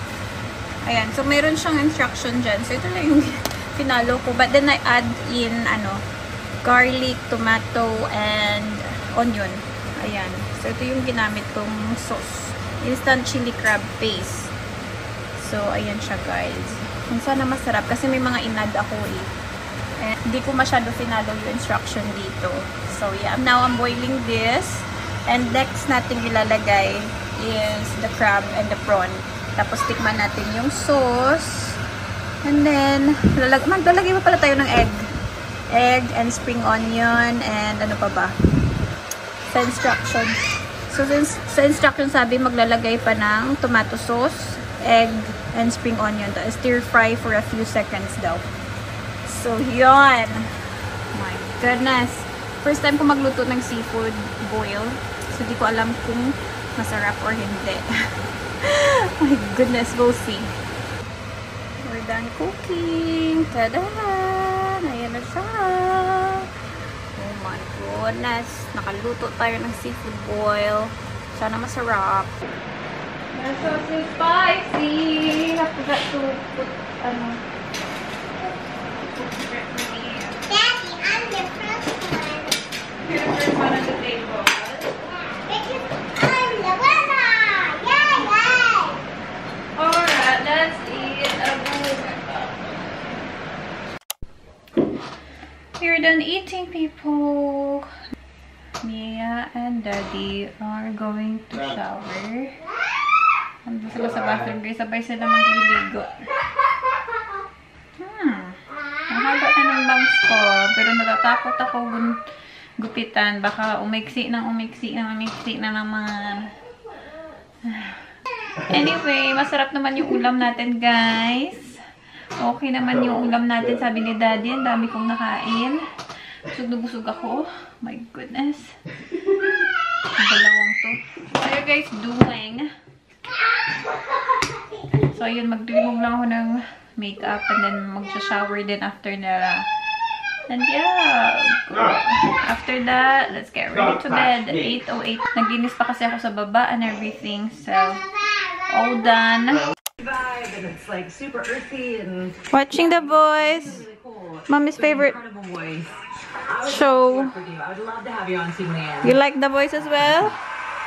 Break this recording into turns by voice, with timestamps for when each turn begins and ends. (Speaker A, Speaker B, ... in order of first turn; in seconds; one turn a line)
Speaker A: 0.8-6.0
Speaker A: 6.6-14.5
Speaker A: 15.4-19.3
Speaker A: 20.0-31.8
Speaker A: 32.4-35.1
Speaker A: 35.7-38.4
Speaker A: 39.5-48.5
Speaker A: 49.3-50.5
Speaker A: 51.1-57.9
Speaker A: 58.6-60.5
Speaker A: 61.8-66.5
Speaker A: 67.2-72.4
Speaker A: 73.3-77.4
Speaker A: 79.0-80.4
Speaker B: 80.5-82.5
Speaker A: 83.0-84.9
Speaker B: 85.0-89.0
Speaker A: 89.8-93.0
Speaker A: 95.8-97.9
Speaker A: 98.8-102.6
Speaker A: 103.7-106.2
Speaker A: 108.0-112.2
Speaker A: 112.8-116.5
Speaker A: 117.7-118.0
Speaker A: 118.7-121.8
Speaker A: 122.4-125.8
Speaker A: 126.5-128.8
Speaker A: 130.2-132.7
Speaker B: 133.7-135.0
Speaker A: 134.9-139.7
Speaker A: 140.5-148.1
Speaker B: 147.7-149.5
Speaker A: 148.7-149.7
Speaker C: 150.0-159.2
Speaker A: 152.5-153.8
Speaker A: 154.5-155.2
Speaker A: 156.6-157.4
Speaker A: 159.0-160.4